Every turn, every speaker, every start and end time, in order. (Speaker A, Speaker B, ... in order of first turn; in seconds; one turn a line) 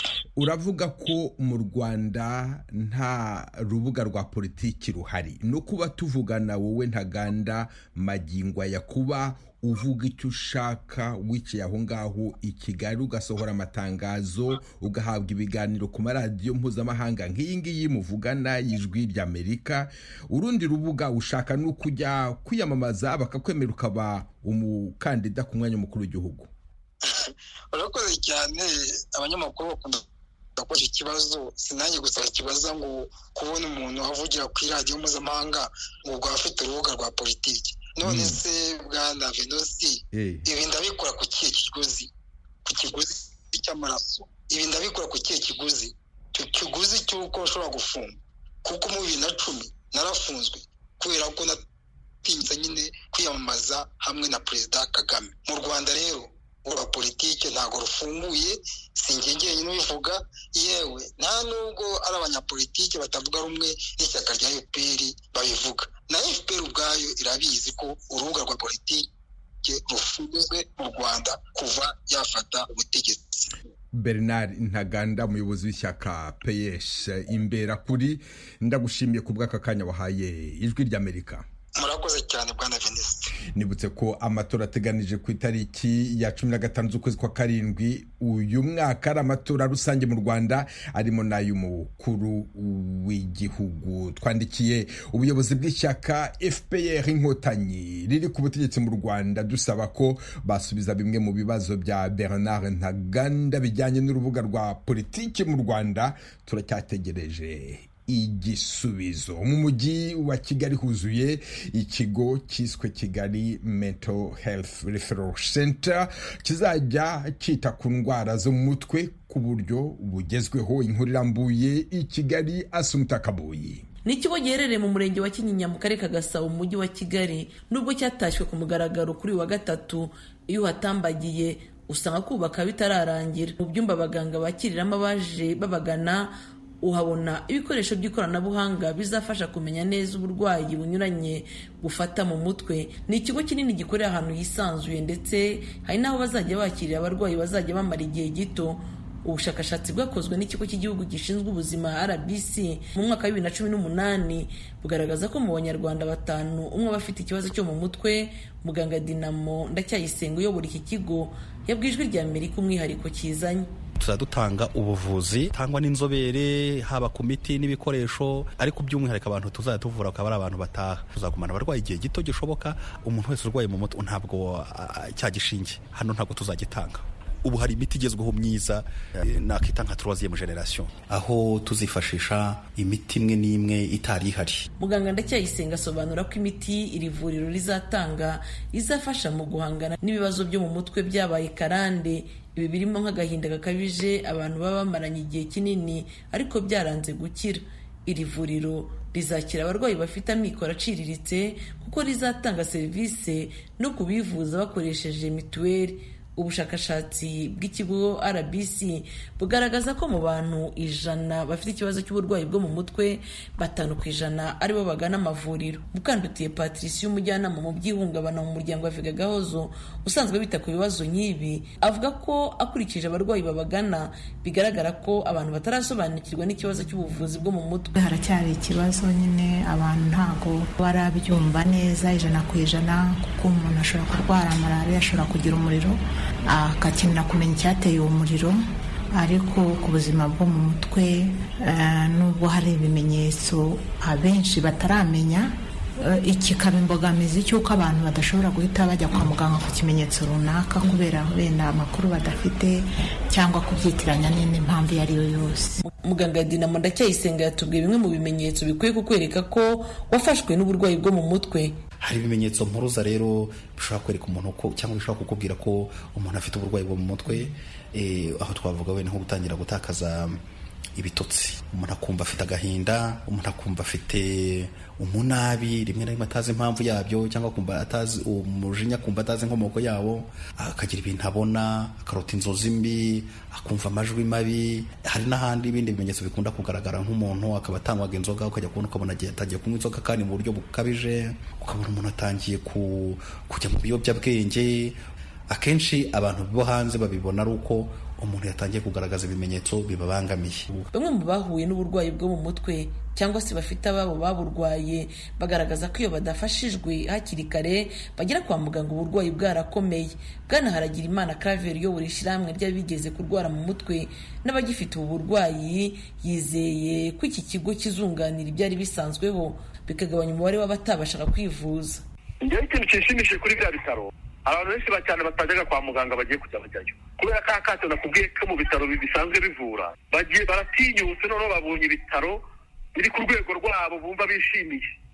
Speaker A: 0.4-26.5
Speaker B: 27.0-30.0
Speaker B: 30.6-42.1
Speaker A: 38.0-38.4
Speaker A: 40.1-40.5
Speaker B: 42.6-51.6
Speaker B: 52.2-69.1
Speaker B: 69.6-73.5
Speaker A: 73.9-81.5
Speaker B: 81.8-83.3
Speaker A: 83.5-123.9
Speaker C: 124.0-163.7
Speaker D: 164.0-184.7
Speaker C: 184.8-227.9
Speaker E: 227.9-238.6
Speaker E: 239.1-255.8
Speaker C: 256.0-261.8
Speaker D: 262.0-270.4
Speaker D: 270.9-295.0
Speaker D: 295.5-300.9
Speaker C: 300.9-322.0
Speaker F: 322.4-332.4
Speaker F: 332.9-334.8